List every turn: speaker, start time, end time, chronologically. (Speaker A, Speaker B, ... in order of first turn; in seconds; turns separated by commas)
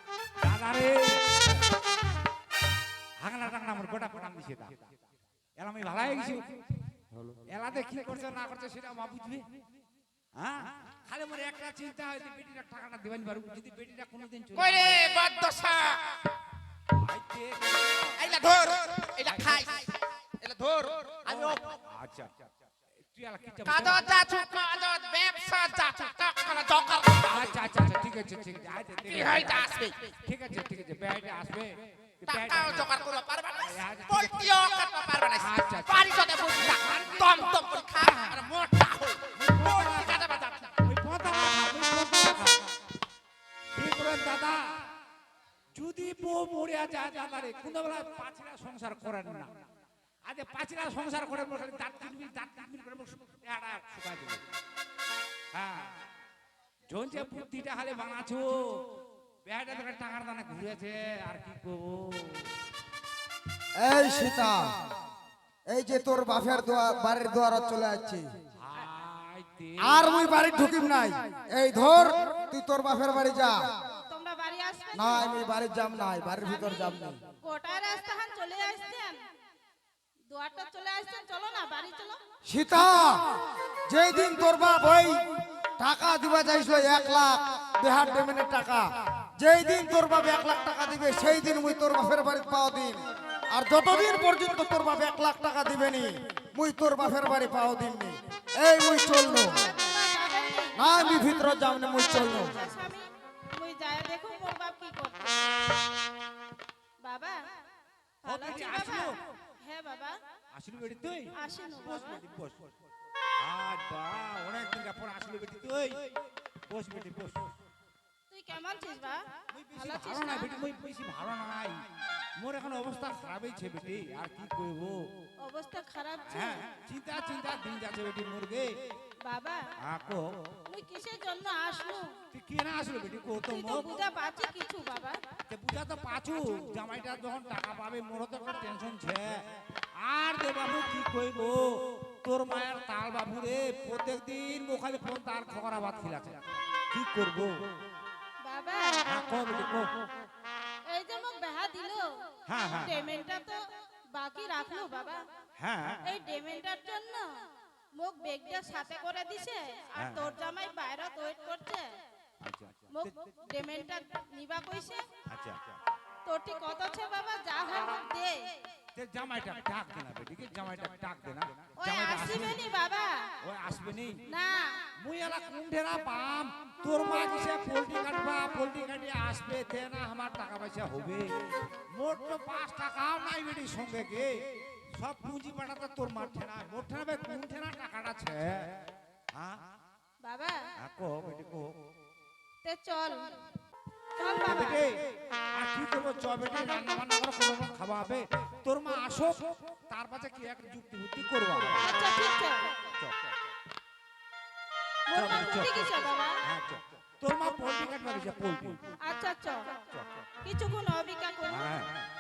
Speaker A: 0.4-1.3, Speaker A: 3.2-4.9, Speaker A: 5.6-6.4, Speaker A: 7.5-9.4, Speaker A: 10.4-15.2, Speaker B: 14.6-16.0, Speaker A: 17.0-18.3, Speaker B: 18.2-19.9, Speaker A: 19.2-19.7, Speaker B: 20.5-21.5, Speaker A: 21.2-22.3, Speaker A: 23.1-24.2, Speaker B: 23.7-27.5, Speaker A: 27.2-34.7, Speaker B: 29.1-30.0, Speaker B: 32.2-40.7, Speaker A: 35.3-38.5, Speaker A: 39.4-42.7, Speaker A: 43.7-44.6, Speaker A: 45.7-49.5, Speaker A: 50.2-54.4, Speaker A: 55.5-55.9, Speaker A: 56.9-58.5, Speaker A: 59.5-62.5, Speaker C: 63.8-64.7, Speaker C: 65.7-68.3, Speaker A: 68.6-70.3, Speaker C: 69.8-73.6, Speaker D: 74.1-75.3, Speaker C: 75.0-77.2, Speaker D: 76.4-79.2, Speaker D: 80.3-82.2, Speaker C: 82.5-85.2, Speaker C: 85.8-93.0, Speaker C: 93.5-99.6, Speaker D: 99.5-101.3, Speaker C: 100.8-102.6, Speaker D: 102.0-105.6, Speaker D: 107.0-107.4, Speaker D: 108.2-110.2, Speaker A: 108.3-109.2, Speaker A: 110.5-112.7, Speaker D: 111.3-112.2, Speaker A: 113.4-116.0, Speaker A: 116.7-117.5, Speaker D: 118.3-119.2, Speaker A: 119.5-121.8, Speaker D: 119.7-120.6, Speaker A: 122.4-125.0, Speaker D: 125.4-126.7, Speaker A: 126.3-128.7, Speaker D: 129.3-129.6, Speaker A: 129.8-130.6, Speaker D: 130.7-132.1, Speaker A: 132.3-134.0, Speaker D: 133.4-135.2, Speaker A: 135.5-139.4, Speaker A: 140.0-141.7, Speaker A: 142.2-147.5, Speaker D: 148.5-149.1, Speaker A: 149.1-149.9, Speaker D: 150.9-152.1, Speaker A: 152.5-152.9, Speaker D: 152.8-153.6, Speaker D: 154.1-155.2, Speaker A: 155.6-156.1, Speaker D: 156.0-157.3, Speaker D: 158.0-161.9, Speaker A: 160.0-160.3, Speaker A: 162.4-163.1, Speaker D: 162.9-165.1, Speaker A: 165.3-165.6, Speaker D: 166.3-168.4, Speaker A: 168.9-172.6, Speaker D: 171.8-173.2, Speaker A: 173.4-174.2, Speaker D: 174.3-174.7, Speaker A: 175.0-181.3, Speaker A: 181.9-184.3, Speaker A: 185.0-188.6, Speaker D: 190.2-190.6, Speaker A: 190.8-191.7, Speaker D: 192.6-193.3, Speaker D: 194.2-194.8, Speaker A: 194.4-194.9, Speaker A: 195.6-202.0, Speaker D: 201.8-202.8, Speaker D: 205.1-206.3, Speaker A: 205.1-205.9, Speaker A: 206.5-208.9, Speaker D: 209.0-209.8, Speaker A: 209.9-210.2, Speaker D: 210.4-211.7, Speaker A: 211.5-212.1